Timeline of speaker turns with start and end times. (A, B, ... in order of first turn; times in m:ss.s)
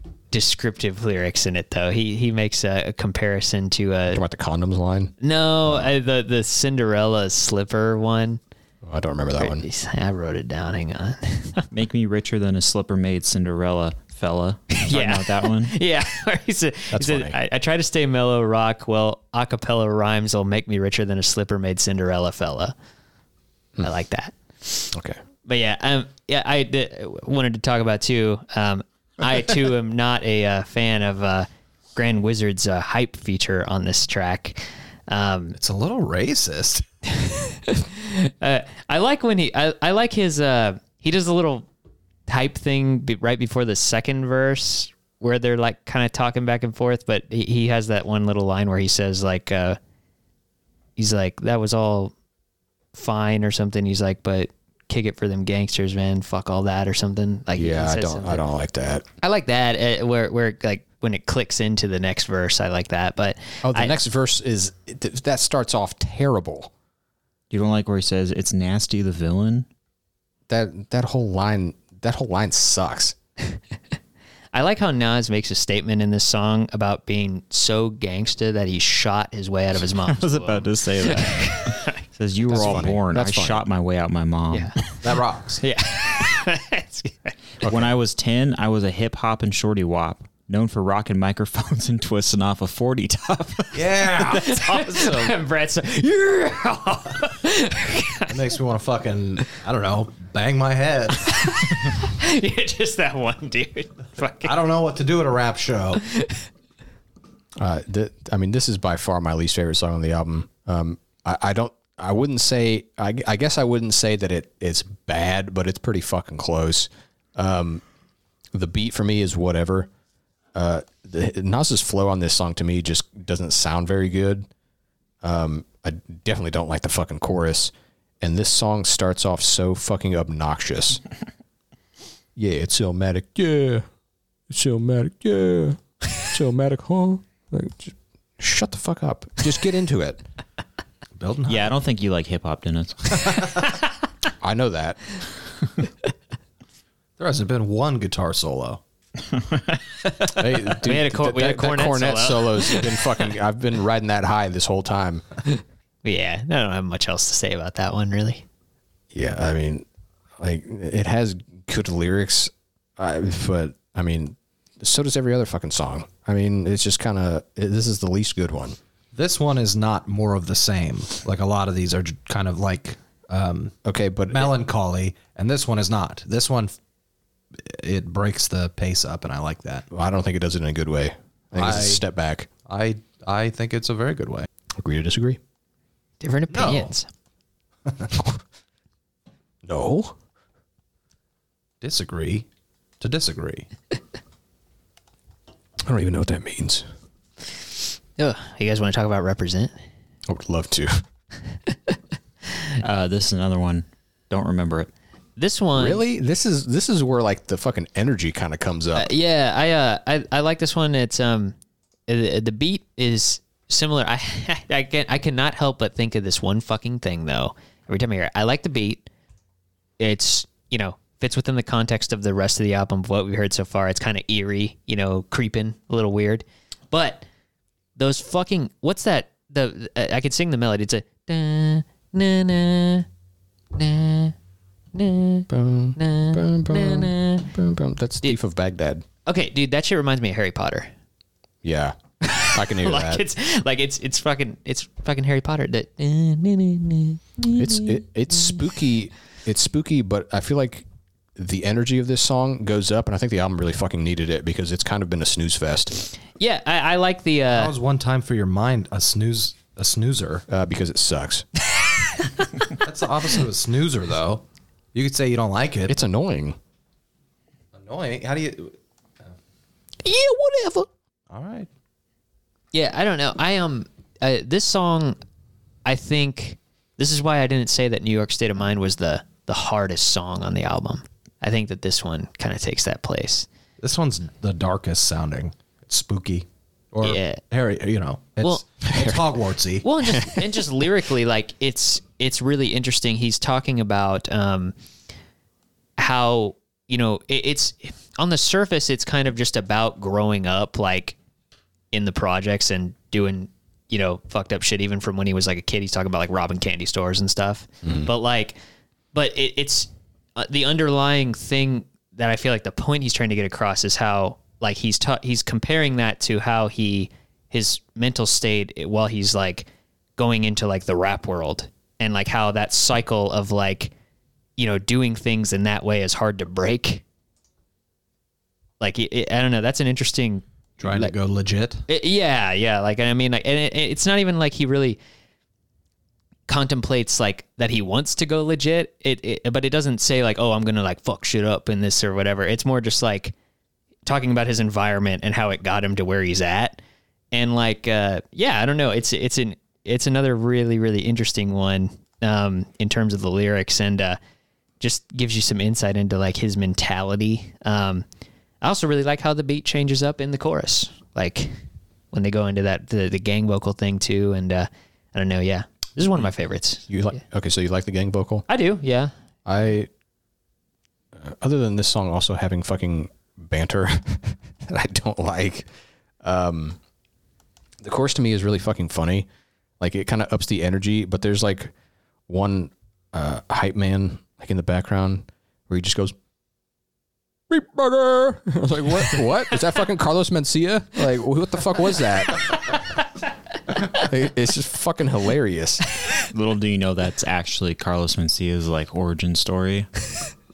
0:00.3-0:04.2 A
0:04.1-0:05.1 B
0:05.2-0:08.4 A
0:08.8-0:09.6 B
0:09.4-0:11.6 A
0:11.7-0:15.7 C
0:14.7-0:22.7 A
0:16.9-0:17.4 B
0:23.8-0:24.9 A
0:24.9-0:25.2 B
0:25.4-0:35.6 A
0:35.6-0:36.8 D
0:37.1-0:41.7 A
0:42.3-0:49.8 A
0:51.0-0:52.1 A
0:52.9-0:58.4 A
0:57.5-0:59.0 B
0:59.2-1:04.0 A
1:03.6-1:06.7 B
1:07.5-1:09.7 C
1:10.5-1:13.2 B
1:14.5-1:22.0 A
1:19.9-1:25.0 C
1:22.5-1:23.6 B
1:25.0-1:25.6 D
1:25.6-1:27.3 A
1:27.6-1:27.9 B
1:27.6-1:34.2 C
1:33.7-1:35.3 D
1:34.2-1:38.4 A
1:38.3-1:41.6 D
1:41.2-1:44.6 A
1:44.4-1:46.0 D
1:46.1-1:46.4 A
1:47.6-1:57.8 B
1:58.5-1:59.9 B
2:00.5-2:04.5 B
2:05.2-2:11.0 B
2:12.4-2:13.8 B
2:14.5-2:20.2 B
2:21.2-2:21.7 D
2:21.5-2:23.6 C
2:23.1-2:23.5 D
2:24.4-2:25.0 B
2:27.2-2:28.8 D
2:30.2-2:33.2 A
2:30.3-2:35.2 B
2:36.0-2:38.4 A
2:39.1-2:39.8 B
2:40.4-2:48.8 B
2:49.1-2:53.7 D
2:53.8-2:54.5 B
2:54.3-2:56.7 D
2:57.6-2:59.9 D
2:59.9-3:02.5 B
3:01.6-3:02.0 D
3:02.6-3:04.5 D
3:04.8-3:05.4 B
3:06.2-3:07.1 A
3:06.5-3:06.9 D
3:07.8-3:08.1 D
3:09.6-3:10.1 B
3:11.8-3:12.5 D
3:13.0-3:13.7 D
3:15.8-3:16.8 B
3:18.2-3:19.7 A
3:20.3-3:21.0 B
3:22.8-3:24.9 C
3:25.4-3:26.0 A
3:25.8-3:29.1 B
3:28.9-3:31.5 A
3:32.1-3:39.1 A
3:40.0-3:47.2 A
3:48.0-3:53.1 A
3:53.7-3:54.3 A
3:54.9-3:57.5 A
3:55.5-3:59.0 B
3:59.2-4:00.9 A
4:01.6-4:03.2 B
4:02.2-4:08.5 A
4:07.5-4:16.0 B
4:16.4-4:17.7 A
4:17.5-4:20.4 D
4:20.5-4:21.4 B
4:21.7-4:22.8 A
4:22.7-4:25.9 D
4:25.9-4:26.6 B
4:27.7-4:29.3 D
4:30.0-4:30.9 A
4:31.3-4:31.7 D
4:32.7-4:35.2 A
4:35.8-4:43.5 A
4:43.8-4:49.9 D
4:47.0-4:47.4 A
4:48.9-4:49.2 B
4:49.8-4:54.7 A
4:50.1-4:50.4 B
4:56.0-5:01.2 A
5:01.9-5:08.6 A
5:09.1-5:23.9 A
5:24.6-5:27.0 A
5:28.8-5:31.1 A
5:30.8-5:31.8 D
5:31.9-5:35.0 A
5:36.5-5:43.3 A
5:44.0-5:46.8 A
5:47.3-5:54.2 A
5:54.8-5:58.0 A
5:58.6-6:01.5 A
6:02.1-6:06.9 A
6:06.9-6:08.4 B
6:08.5-6:09.1 A
6:09.4-6:09.9 B
6:11.1-6:15.7 B
6:16.2-6:16.8 B
6:17.8-6:19.3 B
6:19.8-6:21.7 B
6:22.3-6:26.1 B
6:27.5-6:32.6 B
6:33.7-6:35.8 B
6:36.2-6:39.9 C